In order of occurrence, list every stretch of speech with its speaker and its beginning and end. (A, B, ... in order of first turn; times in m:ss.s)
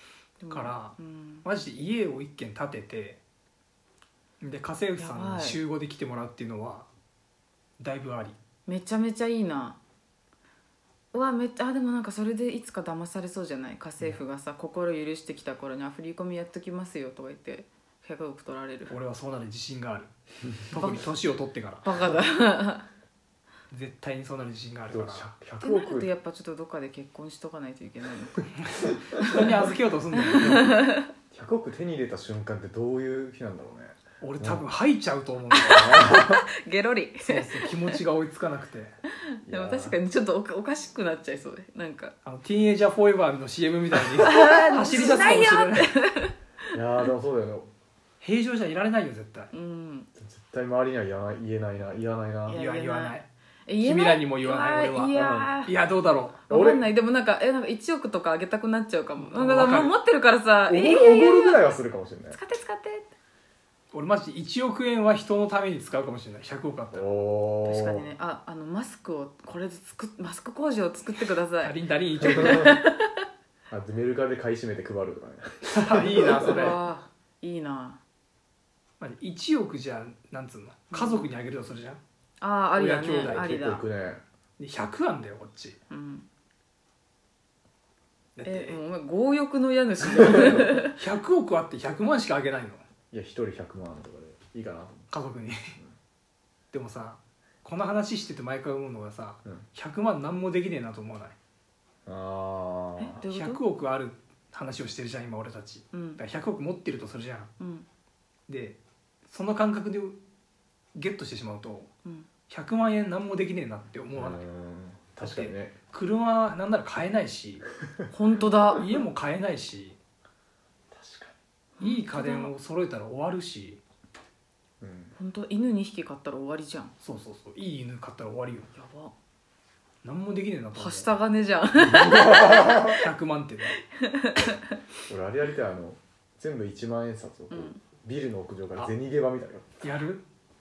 0:00.4-0:01.4 A
0:00.5-0:03.2 B
0:04.4-0:06.9 B
0:05.0-0:05.6 A
0:07.8-0:08.4 B
0:08.6-0:09.8 A
0:11.1-0:19.0 A
0:18.9-0:20.1 B
0:20.7-0:21.9 B
0:20.7-0:21.1 A
0:21.8-0:22.9 A
0:23.7-0:25.3 B
0:24.9-0:26.1 C
0:25.6-0:28.4 A
0:28.6-0:30.7 B
0:30.3-0:31.1 A
0:31.3-0:34.6 C
0:34.2-0:36.2 B
0:35.6-0:38.0 A
0:35.7-0:36.4 C
0:37.2-0:38.9 B
0:39.4-0:42.1 A
0:39.5-0:40.0 C
0:42.2-0:45.9 B
0:44.2-0:46.3 A
0:46.7-0:47.7 C
0:48.2-0:49.5 B
0:49.5-0:50.1 A
0:50.2-0:52.6 C
0:52.5-0:55.7 A
0:52.5-0:53.3 B
0:53.8-0:56.4 B
0:55.1-0:55.6 C
0:56.5-1:01.7 A
0:56.5-0:56.9 C
0:59.2-0:59.9 B
1:00.7-1:02.4 C
1:02.3-1:03.1 A
1:03.9-1:07.1 B
1:06.9-1:08.1 C
1:07.6-1:13.1 A
1:11.6-1:12.7 B
1:12.2-1:12.6 C
1:13.7-1:16.6 C
1:15.6-1:16.8 B
1:16.3-1:18.0 A
1:19.0-1:22.0 B
1:20.9-1:21.3 A
1:22.4-1:23.9 A
1:22.7-1:23.5 B
1:23.2-1:24.2 C
1:24.6-1:25.8 B
1:25.9-1:26.2 A
1:28.4-1:28.8 B
1:28.4-1:31.0 A
1:30.2-1:30.5 C
1:30.4-1:32.8 B
1:33.1-1:35.1 C
1:35.1-1:35.8 B
1:36.7-1:41.3 B
1:42.0-1:43.2 C
1:43.0-1:43.6 A
1:43.3-1:47.5 B
1:45.9-1:46.2 A
1:47.6-1:47.8 A
1:48.5-1:50.2 B
1:51.0-1:51.9 B
1:52.5-1:54.4 B
1:54.1-1:55.8 C
1:55.2-1:57.7 B
1:58.1-1:58.8 A
1:58.8-2:00.0 B
2:00.9-2:01.4 C
2:01.8-2:02.5 A
2:01.8-2:03.8 B
2:04.8-2:05.1 C
2:05.2-2:06.9 A
2:07.0-2:08.7 B
2:08.7-2:09.1 A
2:10.0-2:11.1 B
2:10.7-2:13.0 A
2:11.8-2:12.9 C
2:12.7-2:13.8 B
2:13.8-2:14.6 A
2:15.1-2:19.7 C
2:17.5-2:17.8 A
2:19.8-2:20.2 B